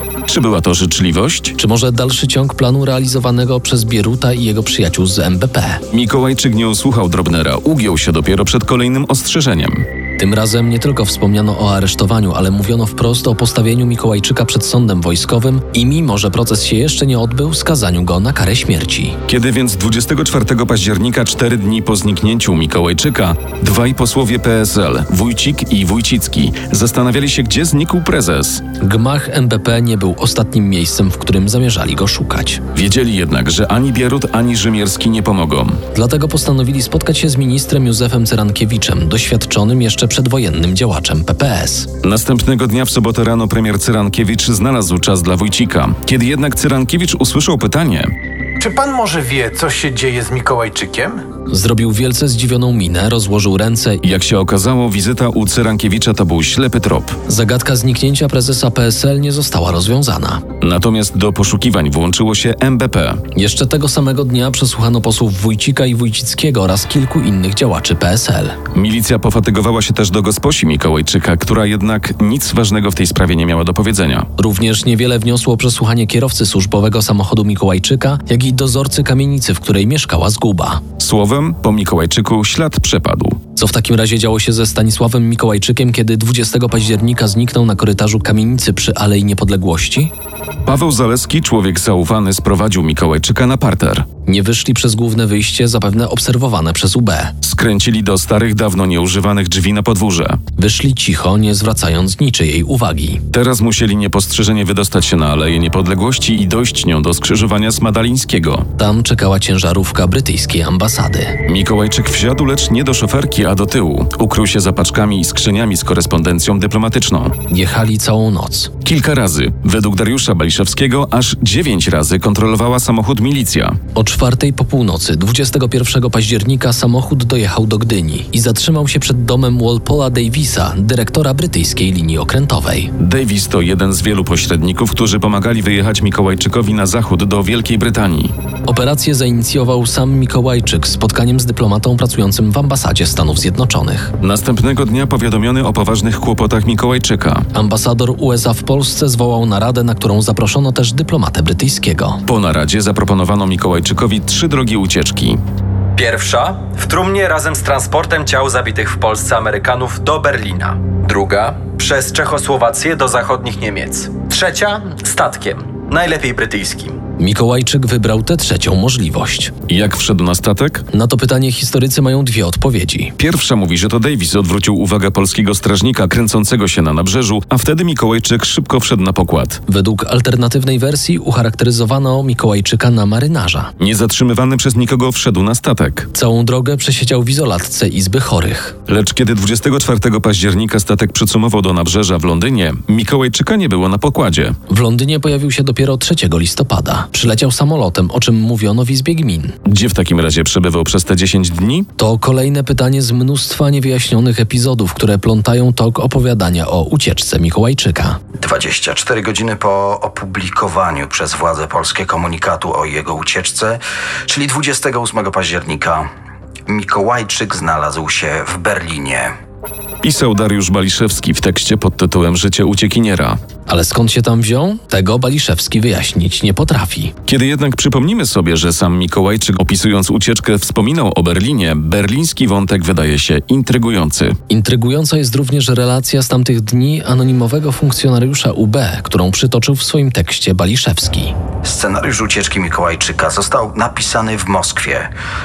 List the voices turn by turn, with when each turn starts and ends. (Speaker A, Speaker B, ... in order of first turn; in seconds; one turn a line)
Speaker A: 0.3-1.6
Speaker B: 1.6-5.8
Speaker A: 5.9-9.8
Speaker B: 10.2-19.2
Speaker A: 19.3-28.6
Speaker B: 28.8-32.6
Speaker A: 32.7-35.8
Speaker B: 35.9-41.9
Speaker A: 42.0-48.1
Speaker C: 48.6-51.2
Speaker B: 51.5-54.0
Speaker A: 54.0-57.2
Speaker B: 57.3-60.4
Speaker A: 60.6-63.2
Speaker B: 63.3-68.5
Speaker A: 68.7-74.3
Speaker B: 74.4-80.8
Speaker A: 81.0-83.4
Speaker B: 83.5-90.1
Speaker A: 90.6-94.0
Speaker B: 94.2-97.3
Speaker A: 97.4-100.4
Speaker B: 100.6-103.2
Speaker A: 103.3-108.7
Speaker B: 108.8-111.4
Speaker A: 111.5-117.3
Speaker B: 117.5-118.7
Speaker A: 118.8-123.8
Speaker B: 123.9-132.9
Speaker A: 133.0-138.3
Speaker B: 138.7-144.1
Speaker A: 144.2-147.4
Speaker B: 147.5-152.2
Speaker A: 152.2-155.4
Speaker D: 156.0-166.9
Speaker B: 167.2-169.5
Speaker A: 169.7-170.8
Speaker B: 170.9-173.1
Speaker A: 173.2-179.6
Speaker B: 179.7-183.7
Speaker A: 183.8-186.1
Speaker B: 186.1-188.8
Speaker A: 188.9-194.6
Speaker B: 194.7-199.6
Speaker A: 199.7-201.9
Speaker B: 202.0-208.2
Speaker E: 208.4-216.1
Speaker E: 216.7-219.3
Speaker A: 220.0-223.4
Speaker B: 223.7-227.1
Speaker A: 227.2-234.4
Speaker B: 234.5-241.3
Speaker E: 241.6-245.1